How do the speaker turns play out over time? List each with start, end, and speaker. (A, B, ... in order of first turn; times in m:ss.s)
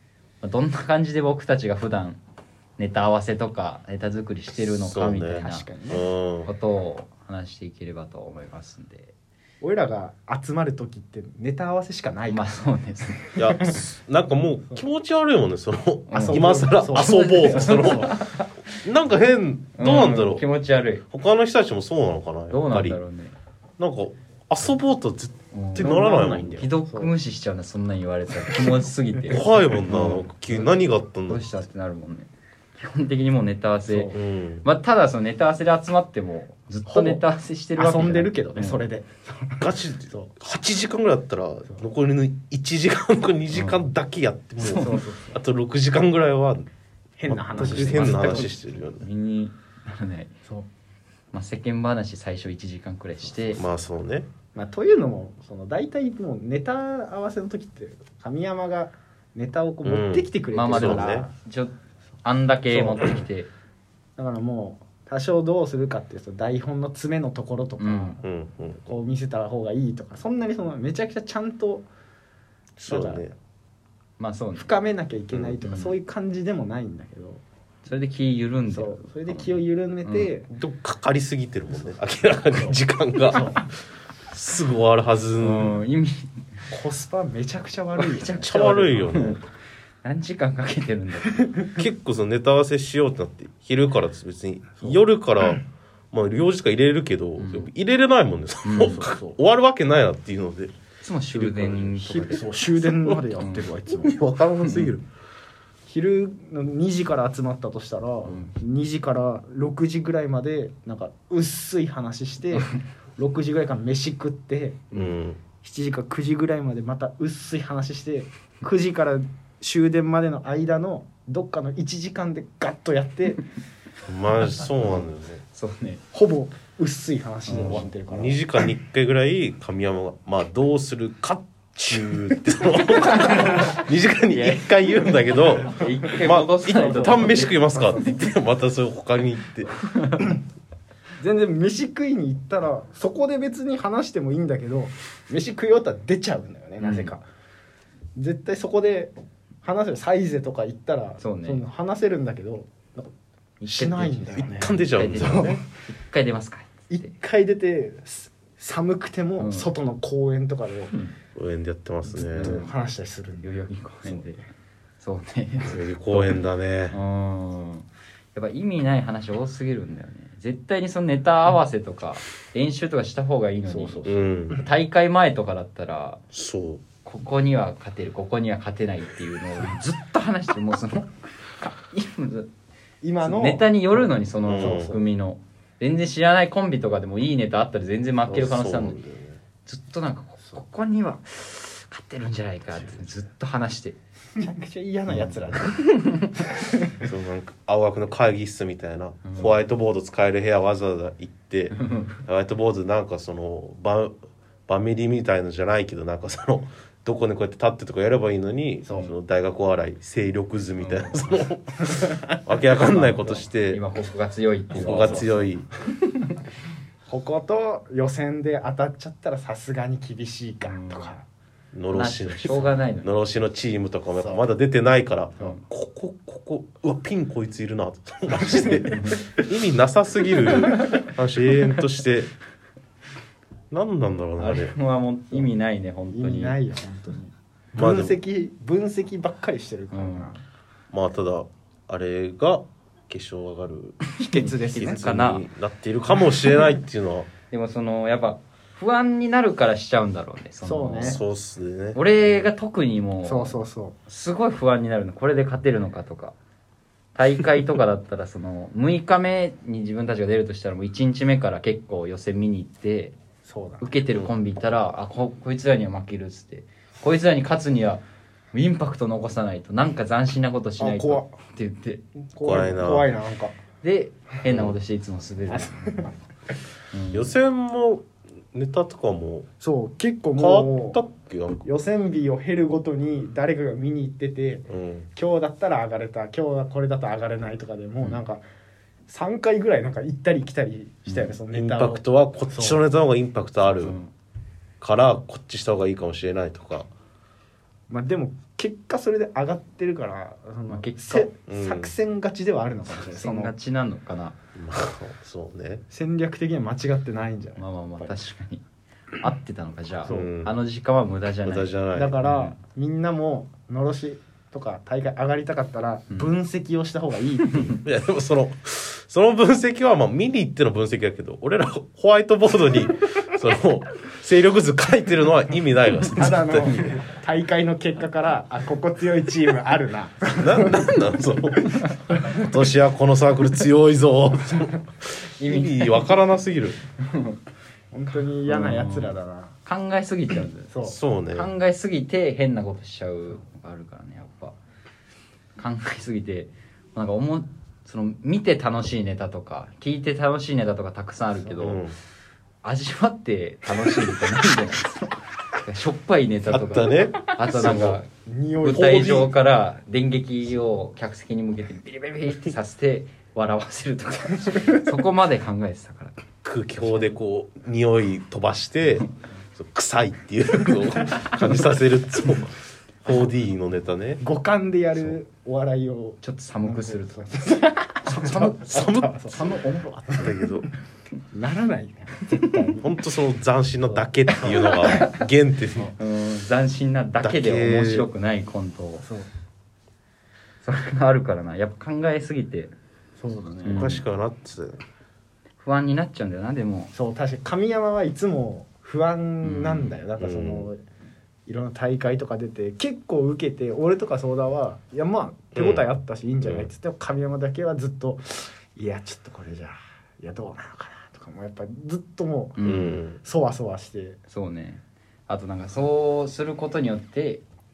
0:00.4-0:02.2 A
0:02.8-0:05.7 A
0:04.6-0:06.5 B
0:05.3-0:06.0 C
0:06.4-0:09.1 A
0:09.6-0:12.5 C
0:12.3-0:13.6 A
0:13.4-0:18.2 B
0:16.1-0:18.5 A
0:16.1-0:18.2 C
0:18.8-0:20.5 B
0:19.8-0:21.0 A
0:21.1-0:23.0 B
0:22.5-0:23.3 A
0:23.8-0:26.7 B
0:25.5-0:26.0 A
0:25.8-0:27.1 C
0:26.5-0:30.7 A
0:29.3-0:31.6 B
0:31.3-0:38.8 A
0:33.9-0:34.1 C
0:34.1-0:34.6 B
0:36.9-0:37.2 C
0:37.8-0:40.3 C
0:39.6-0:46.6 B
0:43.5-0:43.9 A
0:44.6-0:44.9 A
0:44.8-0:45.4 C
0:47.2-0:48.6 C
0:47.3-0:49.0 B
0:47.6-0:50.3 A
0:51.3-0:53.7 A
0:53.6-0:54.3 B
0:54.6-1:01.3 C
0:59.8-1:01.3 B
1:00.5-1:03.5 A
1:02.7-1:03.1 C
1:04.2-1:08.2 C
1:07.8-1:08.2 A
1:08.2-1:09.0 B
1:08.9-1:11.9 C
1:12.8-1:13.3 C
1:12.9-1:13.3 B
1:14.2-1:14.7 A
1:14.6-1:17.4 C
1:15.3-1:15.6 B
1:15.6-1:16.0 A
1:17.8-1:20.3 A
1:18.7-1:20.5 C
1:20.5-1:23.6 B
1:23.3-1:23.6 C
1:24.3-1:25.8 B
1:25.4-1:26.4 A
1:26.7-1:28.6 C
1:28.0-1:29.4 A
1:28.4-1:29.4 B
1:30.0-1:31.4 A
1:31.8-1:40.7 B
1:37.4-1:37.7 A
1:38.6-1:39.0 A
1:38.8-1:39.4 C
1:41.0-1:42.5 A
1:41.3-1:42.4 B
1:42.2-1:44.2 C
1:43.4-1:43.7 A
1:43.9-1:45.0 B
1:45.9-1:54.9 C
1:54.9-1:55.2 A
1:54.9-1:55.4 B
1:55.6-2:03.4 C
2:04.1-2:05.4 B
2:05.5-2:06.0 A
2:06.1-2:08.6 C
2:07.5-2:07.9 A
2:07.5-2:19.7 B
2:14.3-2:18.2 A
2:21.2-2:27.2 C
2:26.8-2:27.1 A
2:28.2-2:33.1 C
2:31.2-2:31.6 A
2:33.6-2:37.1 A
2:33.6-2:35.6 C
2:34.3-2:35.6 B
2:36.9-2:40.9 C
2:39.4-2:39.7 A
2:41.3-2:42.6 B
2:42.1-2:43.5 C
2:42.2-2:42.7 A
2:43.4-2:44.5 A
2:45.0-2:46.4 A
2:45.6-2:47.0 B
2:46.9-2:56.2 A
2:53.7-2:54.6 C
2:54.1-2:54.6 B
2:56.3-2:56.8 B
2:57.0-3:02.5 A
3:03.0-3:04.1 C
3:03.2-3:09.0 A
3:04.5-3:04.9 B
3:04.6-3:05.1 C
3:08.3-3:09.4 B
3:09.7-3:14.0 A
3:14.4-3:17.0 C
3:15.1-3:16.3 A
3:17.0-3:24.2 B
3:21.7-3:22.2 A
3:24.7-3:33.8 B
3:28.8-3:29.1 C
3:30.8-3:31.4 A
3:32.7-3:35.5 A
3:34.8-3:35.7 B
3:34.8-3:35.3 C
3:37.1-3:41.2 C
3:40.7-3:41.2 A
3:41.7-3:52.3 B
3:41.9-3:43.1 A
3:44.2-3:44.5 C
3:53.7-3:54.8 B
3:54.4-3:56.6 A
3:56.1-4:00.4 C
3:57.8-3:58.2 B
3:59.9-4:00.3 A
4:00.9-4:04.2 B
4:04.2-4:05.4 A
4:04.2-4:05.1 C
4:04.8-4:07.3 B
4:07.5-4:11.2 A
4:10.6-4:11.2 C
4:11.0-4:12.4 B
4:11.9-4:13.6 A
4:13.2-4:14.0 C
4:14.1-4:16.4 A
4:17.2-4:23.1 A
4:23.4-4:23.9 C
4:23.8-4:28.0 A
4:28.5-4:32.0 A
4:30.8-4:31.3 C
4:32.3-4:33.6 C
4:32.4-4:33.1 B
4:33.8-4:36.1 A
4:34.4-4:34.8 B
4:35.5-4:36.1 C
4:36.9-4:37.3 A
4:37.1-4:39.5 B
4:39.6-4:41.0 C
4:40.4-4:41.7 B
4:41.6-4:48.4 C
4:44.7-4:45.1 B
4:49.1-4:52.8 C
4:51.1-4:51.4 A
4:51.5-4:54.0 B
4:53.8-4:54.1 A
4:54.8-4:56.9 B
4:57.9-5:03.5 C
5:00.7-5:01.3 A
5:01.5-5:01.9 B
5:03.1-5:04.4 A
5:04.6-5:05.8 B
5:05.9-5:08.2 C
5:07.6-5:08.6 A
5:09.2-5:12.6 A
5:10.1-5:10.5 B
5:11.4-5:12.2 B
5:11.9-5:17.8 C
5:17.8-5:27.0 B
5:26.1-5:30.9 C
5:30.4-5:36.8 B
5:35.4-5:36.1 A
5:37.1-5:37.4 A
5:37.9-5:39.6 C
5:38.5-5:39.1 A
5:39.6-5:40.7 A
5:40.7-5:41.0 C
5:40.8-5:41.5 B
5:41.3-5:44.6 A
5:45.6-5:51.8 A
5:51.6-5:52.0 B
5:52.6-5:58.1 A
5:56.5-5:58.0 B
5:58.2-5:59.3 C
5:58.6-6:06.2 A
5:58.7-5:59.2 B
6:06.4-6:14.2 B
6:14.2-6:19.4 C
6:16.2-6:18.6 A
6:18.1-6:20.7 B
6:19.3-6:20.3 A
6:21.3-6:22.9 C
6:22.8-6:25.9 B
6:23.9-6:25.2 C
6:26.0-6:29.0 A
6:27.2-6:28.1 B
6:29.0-6:29.3 C
6:30.6-6:32.7 A
6:33.2-6:33.9 C
6:33.6-6:34.0 A
6:33.7-6:34.8 B
6:35.6-6:36.9 A
6:36.9-6:40.8 C
6:39.4-6:40.0 A
6:40.2-6:40.7 B
6:41.5-6:54.2 C
6:45.6-6:45.8 B
6:46.4-6:46.7 B
6:52.6-6:53.0 A
6:52.6-6:53.2 B
6:54.3-6:57.4 A